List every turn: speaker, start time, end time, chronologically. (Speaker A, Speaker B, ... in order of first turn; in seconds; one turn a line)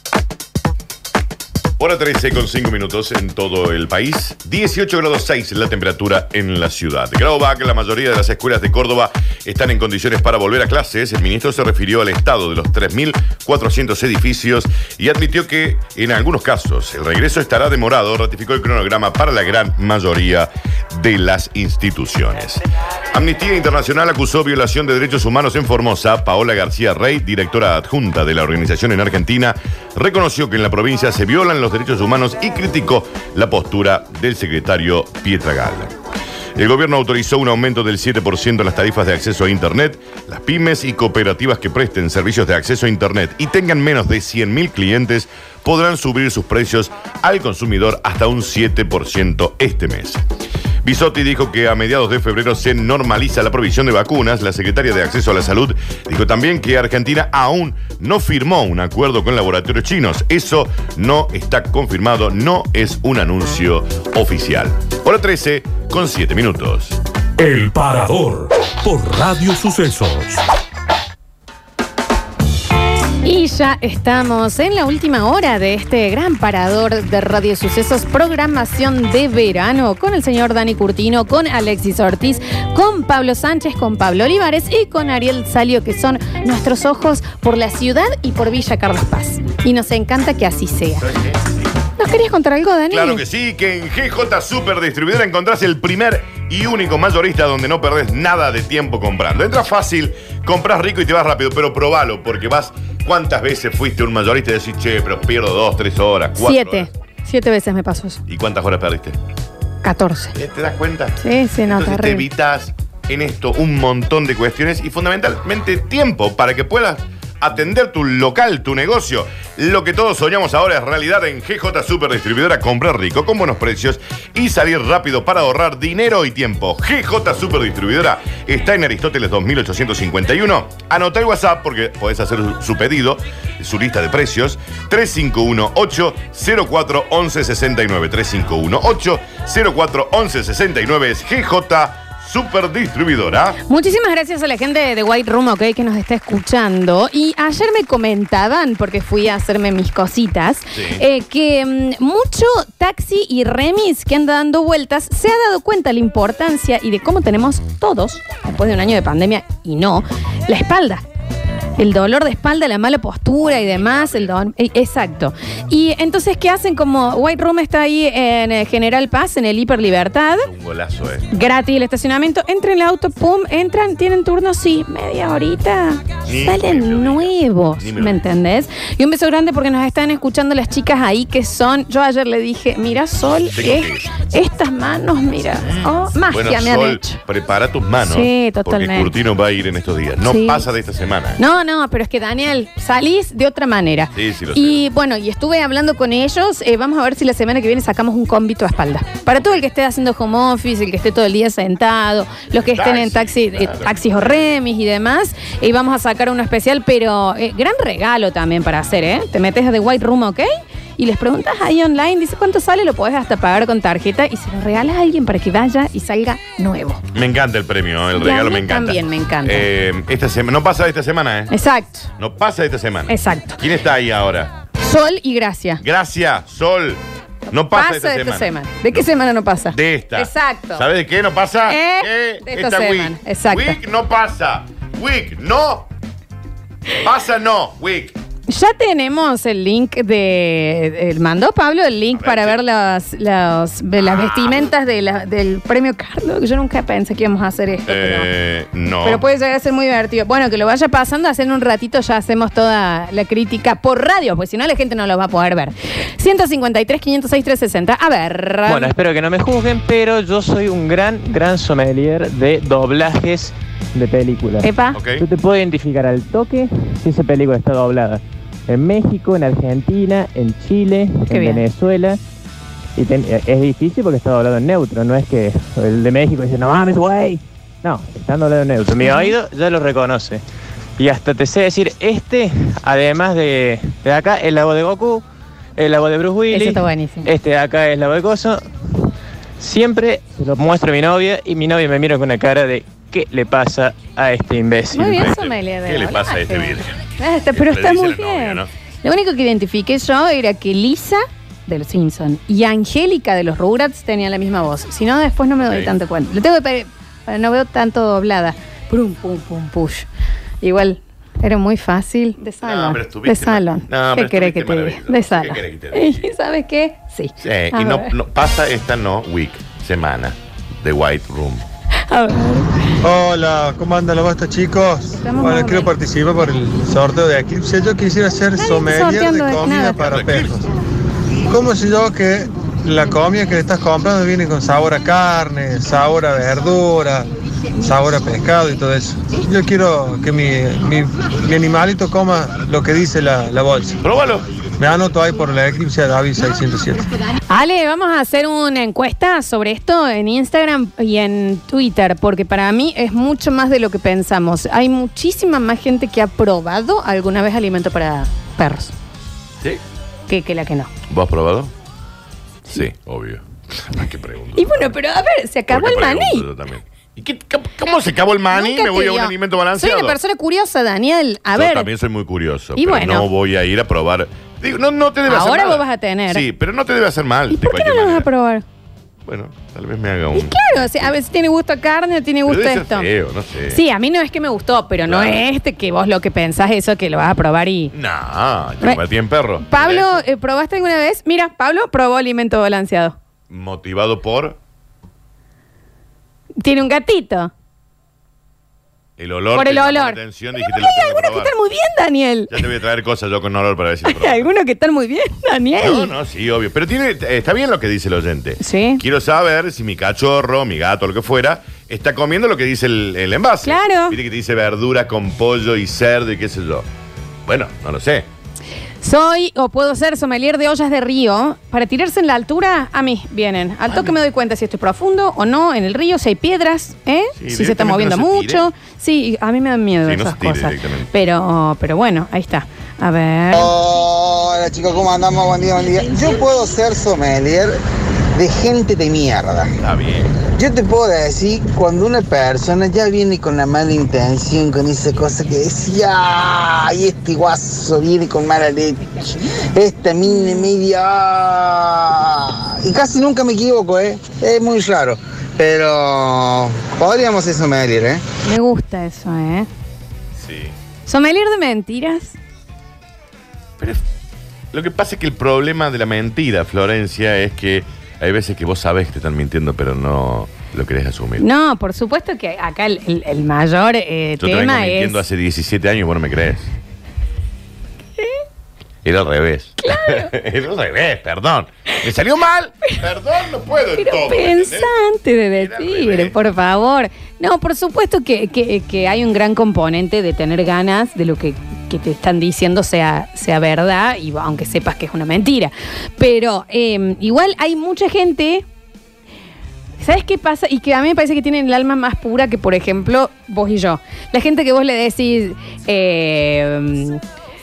Speaker A: 1.8-35.9
Speaker A: 36.5-50.2
Speaker A: 50.8-67.0
Speaker B: 67.4-70.4
Speaker C: 73.2-91.0
Speaker A: 91.0-91.7
Speaker C: 92.0-93.2
Speaker A: 92.9-106.9
Speaker C: 106.4-108.2
Speaker A: 108.3-109.2
Speaker C: 109.8-110.3
Speaker A: 110.3-111.2
Speaker C: 111.2-112.2
Speaker A: 111.7-143.6
Speaker C: 143.7-161.0
Speaker A: 150.7-151.0
Speaker C: 161.8-170.5
Speaker A: 163.4-164.3
Speaker A: 170.4-171.3
Speaker C: 171.3-187.2
Speaker A: 176.2-178.2
Speaker A: 183.5-184.1
Speaker A: 185.6-191.4
Speaker C: 188.0-189.1
Speaker C: 190.2-190.6
Speaker C: 191.4-217.0
Speaker A: 194.1-194.8
Speaker A: 202.6-204.6
Speaker A: 217.1-221.5
Speaker C: 218.2-219.7
Speaker C: 221.5-222.1
Speaker A: 222.2-224.5
Speaker C: 223.1-223.6
Speaker C: 224.8-225.8
Speaker A: 225.8-227.0
Speaker C: 227.5-230.8
Speaker A: 227.5-229.1
Speaker A: 229.7-235.9
Speaker C: 231.7-233.8
Speaker A: 237.0-238.2
Speaker C: 238.5-248.3
Speaker A: 242.1-242.6
Speaker A: 244.0-244.7
Speaker A: 247.9-249.2
Speaker C: 249.0-258.9
Speaker D: 258.7-272.2
Speaker C: 264.6-265.0
Speaker A: 264.9-265.2
Speaker C: 271.3-271.6
Speaker D: 273.0-280.4
Speaker C: 279.0-279.4
Speaker D: 281.0-285.2
Speaker D: 285.8-288.6
Speaker C: 286.5-287.3
Speaker D: 289.6-295.2
Speaker C: 294.9-310.1
Speaker A: 295.1-297.0
Speaker A: 297.5-298.7
Speaker A: 305.6-305.9
Speaker C: 310.6-318.1
Speaker A: 312.6-316.3
Speaker A: 317.4-321.6
Speaker C: 322.1-322.7
Speaker E: 323.0-330.7
Speaker C: 325.1-325.9
Speaker C: 328.6-330.0
Speaker A: 329.9-330.7
Speaker E: 331.5-344.0
Speaker A: 344.0-344.5
Speaker E: 344.8-347.1
Speaker C: 347.5-358.9
Speaker C: 360.3-360.9
Speaker A: 361.1-361.7
Speaker A: 362.7-364.9
Speaker C: 364.6-366.4
Speaker A: 365.7-370.2
Speaker C: 368.5-371.9
Speaker A: 371.5-378.3
Speaker C: 372.8-373.3
Speaker C: 375.2-376.4
Speaker C: 377.5-378.6
Speaker A: 379.2-381.1
Speaker C: 380.3-383.1
Speaker A: 382.4-383.8
Speaker C: 383.7-387.9
Speaker A: 385.1-385.4
Speaker A: 387.9-390.2
Speaker C: 389.6-393.1
Speaker A: 393.5-394.6
Speaker C: 396.6-397.5
Speaker A: 399.2-401.5
Speaker C: 399.5-402.5
Speaker A: 402.5-404.5
Speaker C: 404.1-406.1
Speaker A: 405.8-416.9
Speaker C: 408.6-409.0
Speaker C: 413.6-414.2
Speaker A: 417.4-418.2
Speaker C: 419.0-433.7
Speaker A: 427.4-428.6
Speaker A: 430.0-431.1
Speaker F: 433.5-437.8
Speaker F: 438.3-439.7
Speaker A: 439.8-440.4
Speaker F: 440.5-458.2
Speaker C: 458.4-459.7
Speaker A: 460.4-460.7
Speaker C: 461.1-462.4
Speaker A: 464.7-471.4
Speaker C: 471.4-475.2
Speaker A: 474.4-476.7
Speaker A: 479.0-484.9
Speaker C: 479.8-480.3
Speaker C: 484.0-498.6
Speaker A: 485.5-486.3
Speaker C: 500.0-507.2